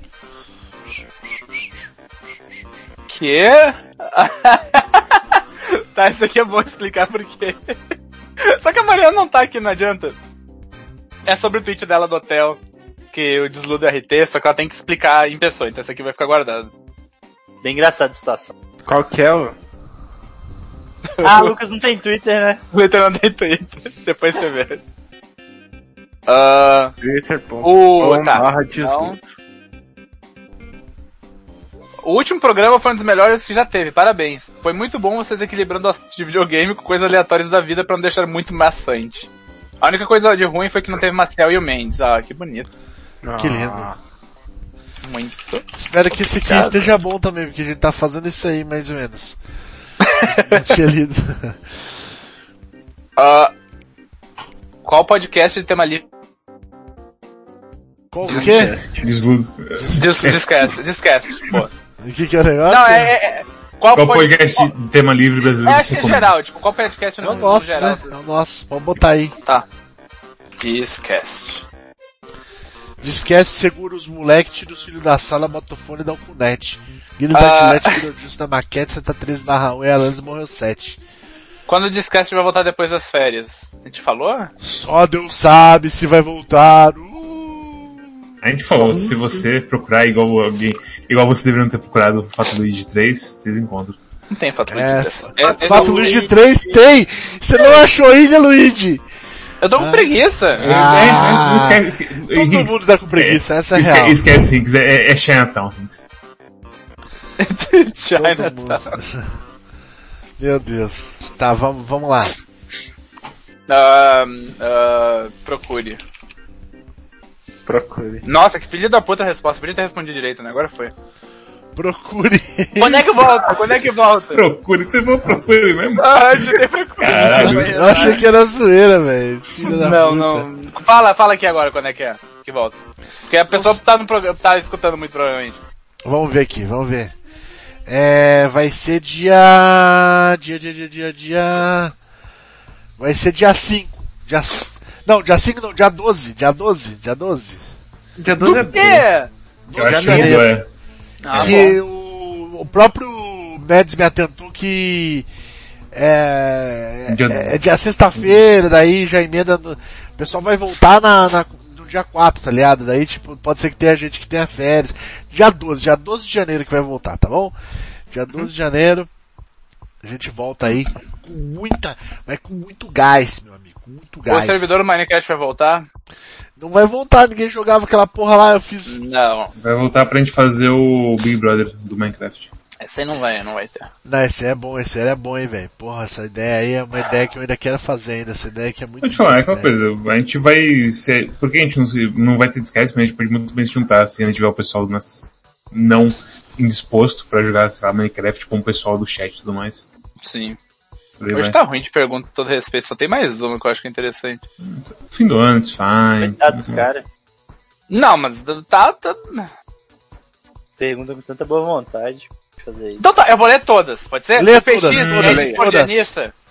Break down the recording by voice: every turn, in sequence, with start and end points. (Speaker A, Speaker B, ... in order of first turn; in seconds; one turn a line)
Speaker A: 3.1-7.8
Speaker A: 8.4-10.2
Speaker A: 11.2-12.6
Speaker A: 13.1-16.7
Speaker B: 17.6-18.5
Speaker C: 18.9-19.5
Speaker A: 21.2-21.5
Speaker B: 21.2-22.6
Speaker A: 22.7-24.8
Speaker A: 26.3-26.9
Speaker C: 27.0-29.2
Speaker A: 27.6-29.2
Speaker A: 32.0-39.3
Speaker A: 39.8-42.7
Speaker C: 43.2-44.0
Speaker D: 43.4-43.9
Speaker A: 45.0-45.6
Speaker D: 45.8-49.4
Speaker A: 46.4-46.9
Speaker A: 50.0-50.6
Speaker D: 50.3-51.6
Speaker A: 53.2-53.5
Speaker A: 54.8-56.0
Speaker D: 58.1-58.8
Speaker C: 58.2-59.2
Speaker E: 59.0-60.5
Speaker D: 59.8-60.4
Speaker A: 59.9-61.7
Speaker D: 62.0-63.1
Speaker A: 62.7-64.7
Speaker E: 63.9-66.3
Speaker A: 65.4-68.1
Speaker D: 67.2-69.3
Speaker A: 70.6-71.7
Speaker D: 73.0-81.0
Speaker A: 77.3-78.0
Speaker A: 81.7-84.5
Speaker D: 84.6-88.1
Speaker E: 88.4-94.0
Speaker C: 88.8-89.4
Speaker A: 94.3-96.3
Speaker D: 94.7-99.0
Speaker A: 99.6-100.7
Speaker D: 99.8-104.2
Speaker E: 100.6-106.0
Speaker A: 107.4-108.9
Speaker D: 108.1-109.3
Speaker D: 110.4-112.3
Speaker A: 113.7-116.0
Speaker C: 117.7-118.2
Speaker A: 118.2-120.9
Speaker D: 121.7-123.5
Speaker A: 122.8-124.4
Speaker E: 124.3-128.1
Speaker A: 126.0-128.2
Speaker D: 127.2-130.5
Speaker A: 129.7-132.8
Speaker A: 133.3-135.6
Speaker D: 133.5-133.8
Speaker D: 136.0-137.1
Speaker D: 137.9-141.9
Speaker D: 143.0-147.6
Speaker C: 148.2-149.1
Speaker A: 148.4-149.3
Speaker D: 149.7-150.5
Speaker E: 149.7-150.7
Speaker C: 149.8-150.4
Speaker A: 151.2-151.8
Speaker E: 151.3-151.7
Speaker D: 151.3-155.3
Speaker D: 155.9-167.5
Speaker E: 157.1-157.6
Speaker D: 168.1-169.1
Speaker D: 170.0-174.8
Speaker A: 174.3-175.8
Speaker D: 176.6-178.9
Speaker A: 178.8-179.5
Speaker E: 179.6-182.5
Speaker A: 182.8-183.9
Speaker D: 184.0-189.7
Speaker E: 189.0-199.9
Speaker A: 200.2-200.6
Speaker E: 201.2-201.6
Speaker A: 201.3-204.4
Speaker E: 204.6-206.9
Speaker B: 206.2-207.0
Speaker A: 207.9-209.5
Speaker B: 210.8-213.0
Speaker A: 213.0-216.3
Speaker D: 214.3-216.1
Speaker E: 214.9-215.5
Speaker C: 215.2-215.6